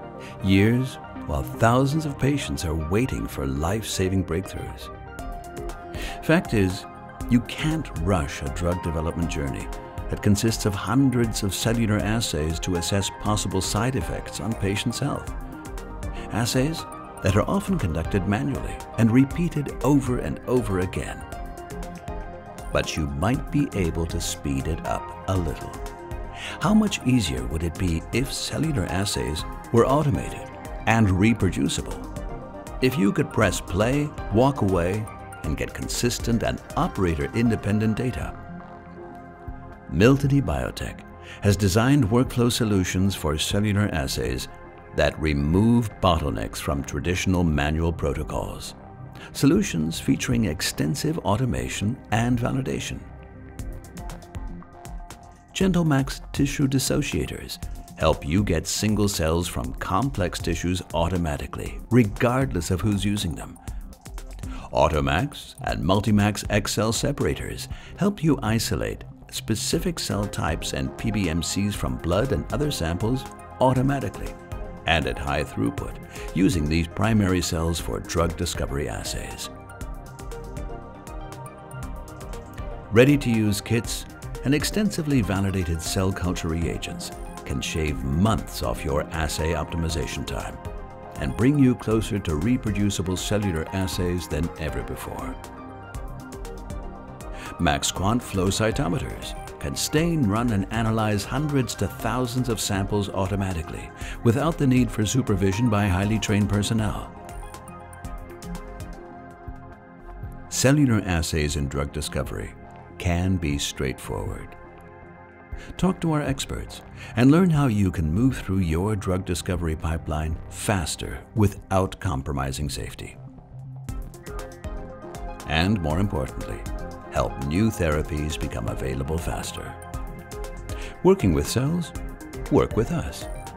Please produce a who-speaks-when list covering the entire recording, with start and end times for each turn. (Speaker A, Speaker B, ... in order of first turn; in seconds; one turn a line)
Speaker A: 0.4-4.9
Speaker A: 6.2-15.3
Speaker A: 16.3-21.3
Speaker A: 22.7-25.8
Speaker A: 26.6-32.1
Speaker A: 32.8-38.4
Speaker A: 39.9-48.8
Speaker A: 49.3-53.1
Speaker A: 55.5-63.6
Speaker A: 64.7-79.5
Speaker A: 82.9-90.6
Speaker A: 91.1-95.4
Speaker A: 97.6-107.1
Speaker A: 110.5-114.6
Speaker A: 115.8-123.2
Speaker A: 125.5-129.8
Speaker A: 131.0-131.9
Speaker A: 132.5-133.3